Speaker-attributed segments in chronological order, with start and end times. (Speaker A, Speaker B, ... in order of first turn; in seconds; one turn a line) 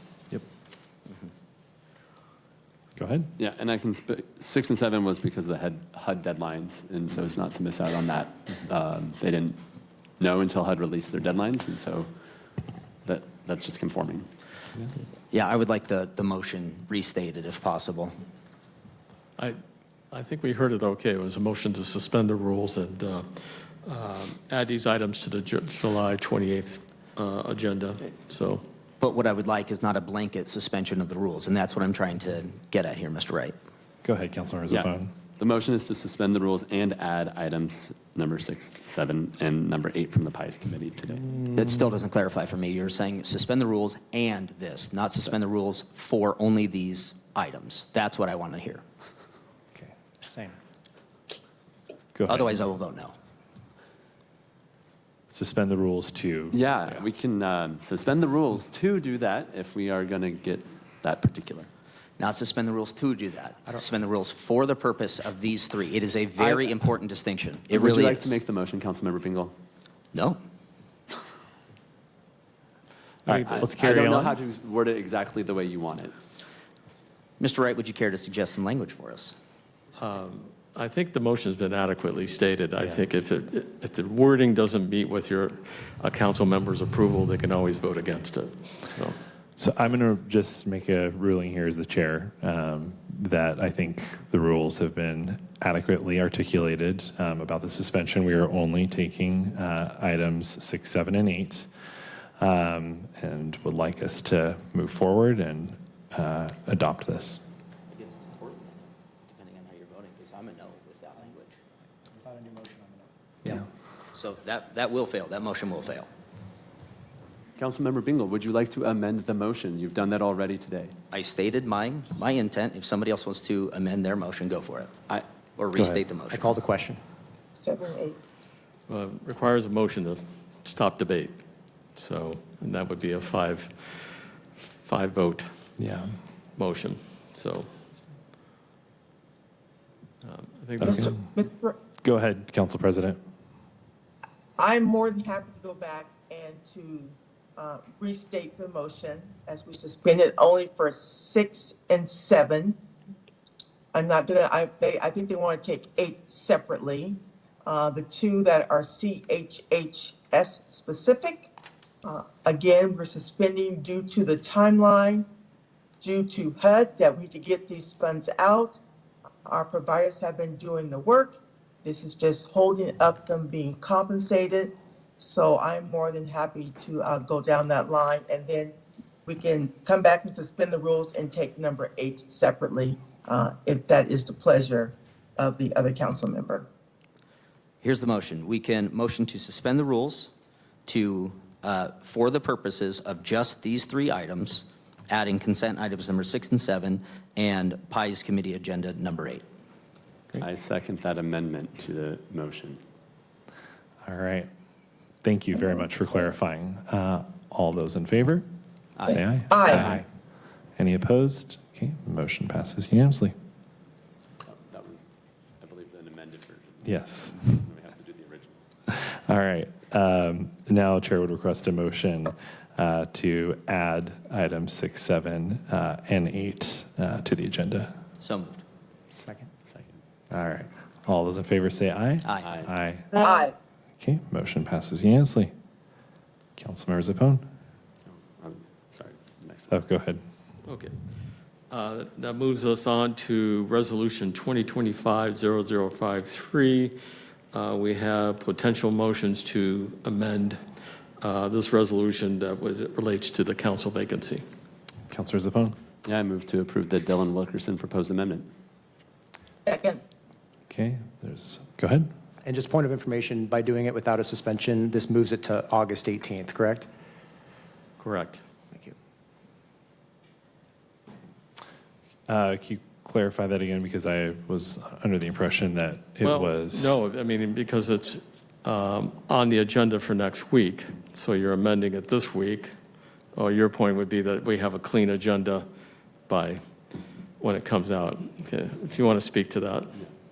Speaker A: 3.0-3.3
Speaker B: 3.4-9.6
Speaker B: 10.2-12.1
Speaker B: 13.1-14.3
Speaker C: 15.3-18.1
Speaker D: 20.1-23.3
Speaker D: 23.8-28.6
Speaker C: 29.0-33.5
Speaker A: 34.0-35.1
Speaker B: 34.7-41.2
Speaker C: 41.5-48.8
Speaker E: 50.2-50.5
Speaker A: 52.1-52.6
Speaker C: 52.3-53.1
Speaker A: 55.3-56.6
Speaker B: 56.5-61.7
Speaker C: 62.2-68.4
Speaker B: 67.7-69.5
Speaker C: 70.1-70.4
Speaker A: 73.3-74.4
Speaker B: 73.5-76.1
Speaker C: 77.4-79.3
Speaker D: 80.0-89.2
Speaker A: 89.6-101.7
Speaker A: 102.4-107.4
Speaker C: 107.9-111.6
Speaker E: 112.1-113.1
Speaker C: 114.1-116.1
Speaker B: 117.6-120.9
Speaker C: 121.1-125.0
Speaker C: 125.6-126.5
Speaker A: 125.8-126.0
Speaker E: 126.3-127.0
Speaker F: 127.6-128.2
Speaker D: 128.9-131.4
Speaker D: 132.0-134.2
Speaker D: 134.8-135.5
Speaker A: 135.8-136.2
Speaker D: 136.6-137.7
Speaker D: 140.2-141.0
Speaker A: 140.8-141.2
Speaker F: 140.8-141.8
Speaker A: 142.0-143.2
Speaker F: 144.6-152.8
Speaker F: 153.9-161.5
Speaker F: 162.0-165.3
Speaker F: 166.0-168.8
Speaker F: 169.5-178.8
Speaker F: 179.3-186.7
Speaker C: 187.8-190.3
Speaker C: 190.9-199.4
Speaker B: 200.4-202.8
Speaker A: 204.0-204.5
Speaker A: 205.2-208.4
Speaker A: 209.0-210.0
Speaker F: 209.1-209.9
Speaker A: 210.8-213.3
Speaker B: 214.5-215.0
Speaker B: 215.6-218.5
Speaker A: 216.8-217.7
Speaker A: 218.9-227.9
Speaker C: 228.2-228.6
Speaker E: 229.2-229.5
Speaker B: 229.7-229.9
Speaker A: 230.3-233.2
Speaker C: 232.3-232.5
Speaker B: 232.4-232.7
Speaker F: 233.1-233.5
Speaker A: 234.0-235.5
Speaker A: 236.6-237.4
Speaker B: 238.4-239.7
Speaker A: 239.7-240.2
Speaker D: 240.7-240.9
Speaker D: 241.7-246.9
Speaker D: 247.5-250.6
Speaker D: 251.2-254.4
Speaker A: 255.1-255.8
Speaker B: 256.1-258.5
Speaker F: 259.7-260.0
Speaker A: 260.7-262.1
Speaker E: 262.4-266.9
Speaker D: 268.0-268.4
Speaker A: 272.3-277.0
Speaker D: 276.2-282.7
Speaker D: 283.3-285.6
Speaker D: 286.3-286.6
Speaker D: 287.4-290.0